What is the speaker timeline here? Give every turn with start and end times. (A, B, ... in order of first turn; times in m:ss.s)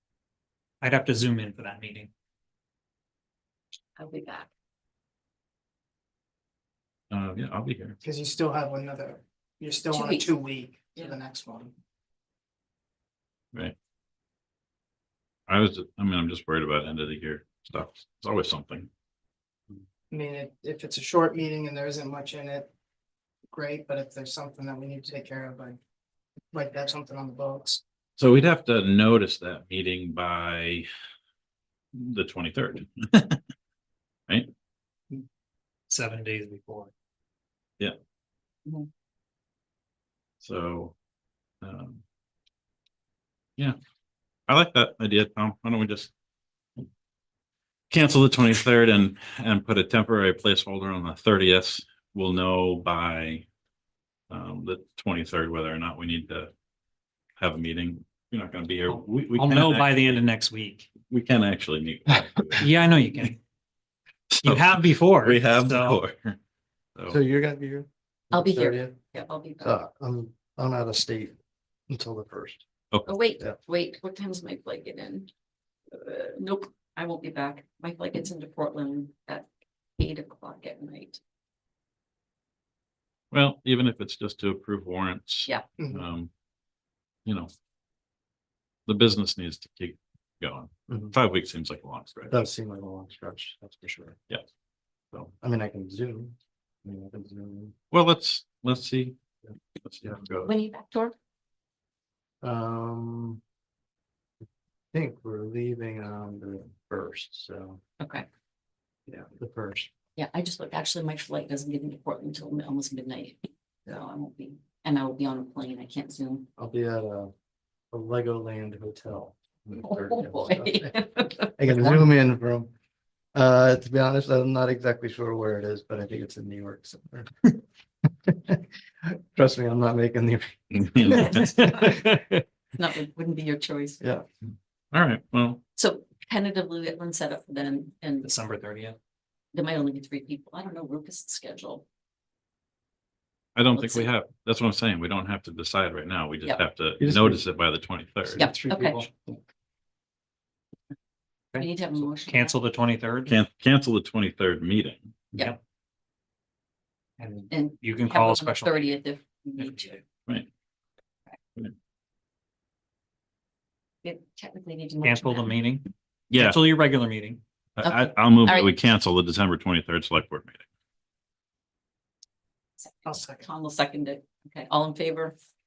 0:00.8-0:02.1 A
0:04.0-0:04.5 B
0:07.1-0:08.0 C
0:08.0-0:11.7 D
0:09.9-0:10.3 B
0:15.5-0:18.9 C
0:20.1-0:22.7 D
0:23.5-0:25.8 D
0:26.5-0:27.8 D
0:28.2-0:30.9 C
0:31.9-0:33.4 C
0:35.9-0:36.9 A
0:40.4-0:41.0 C
0:41.6-0:42.0 C
0:44.5-0:46.1 C
0:47.9-0:53.5 C
0:54.3-0:56.5 C
0:57.4-1:00.2 C
0:58.9-1:00.9 A
1:01.1-1:02.7 C
1:02.6-1:03.4 A
1:04.3-1:06.4 C
1:04.4-1:06.0 A
1:07.1-1:09.0 E
1:08.3-1:09.8 B
1:09.6-1:11.4 E
1:11.9-1:12.6 E
1:13.0-1:15.3 B
1:15.9-1:21.2 B
1:23.3-1:26.3 C
1:27.3-1:27.5 C
1:28.9-1:32.4 C
1:30.9-1:31.1 E
1:32.3-1:34.2 E
1:35.2-1:37.8 E
1:37.9-1:39.2 C
1:39.8-1:40.5 C
1:40.4-1:41.1 B
1:42.4-1:43.4 E
1:44.9-1:47.8 E
1:48.0-1:48.3 B
1:49.1-1:49.9 E
1:50.2-1:56.5 B
1:56.6-1:57.3 E
1:57.9-2:02.7 E
1:59.8-2:01.8 B
2:03.4-2:07.5 E
2:08.3-2:11.9 E
2:10.7-2:11.5 C
2:11.4-2:12.4 A
2:12.8-2:14.0 B
2:14.9-2:15.6 C
2:15.8-2:18.3 B
2:18.2-2:19.0 A
2:19.5-2:21.8 B
2:23.6-2:28.5 C
2:23.7-2:24.1 B
2:27.0-2:27.4 E
2:28.4-2:29.1 B
2:28.4-2:29.1 A
2:31.5-2:32.6 B
2:32.3-2:33.3 A
2:33.3-2:35.4 C
2:37.2-2:38.8 A
2:37.5-2:40.0 B
2:39.6-2:39.9 A
2:44.0-2:45.6 B
2:45.0-2:47.4 A
2:46.3-2:46.6 C
2:47.8-2:50.6 C
2:47.8-2:48.8 B
2:52.8-2:55.4 B
2:53.1-2:53.4 D